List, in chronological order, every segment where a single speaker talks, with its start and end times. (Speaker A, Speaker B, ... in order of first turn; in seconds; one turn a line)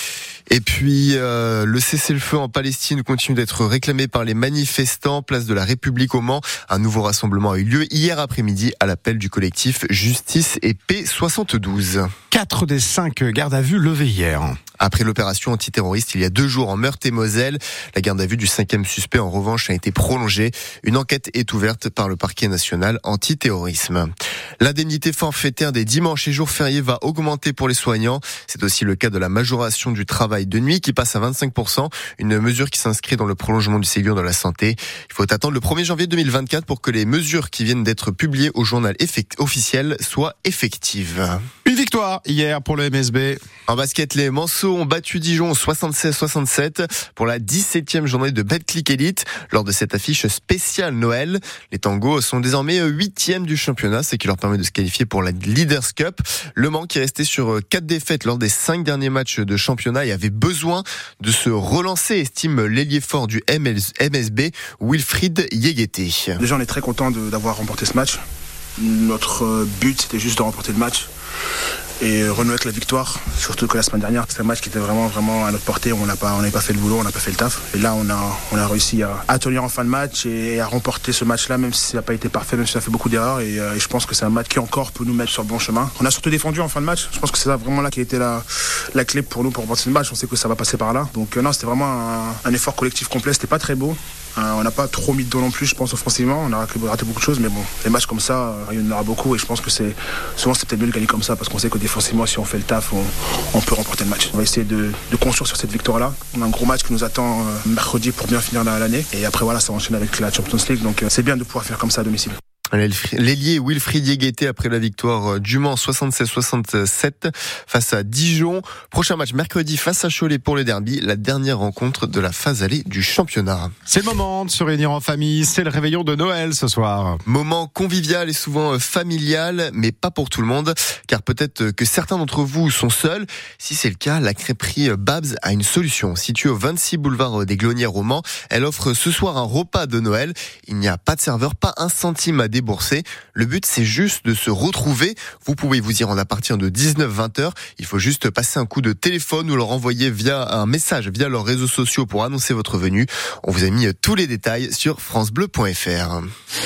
Speaker A: 0.5-12.1
Speaker B: 12.3-14.6
Speaker A: 14.8-41.4
Speaker B: 41.6-43.4
Speaker A: 43.7-66.4
Speaker C: 66.4-68.2
Speaker C: 68.8-71.1
Speaker C: 72.0-112.3
Speaker A: 112.7-123.7
Speaker B: 123.9-127.2
Speaker A: 127.2-156.3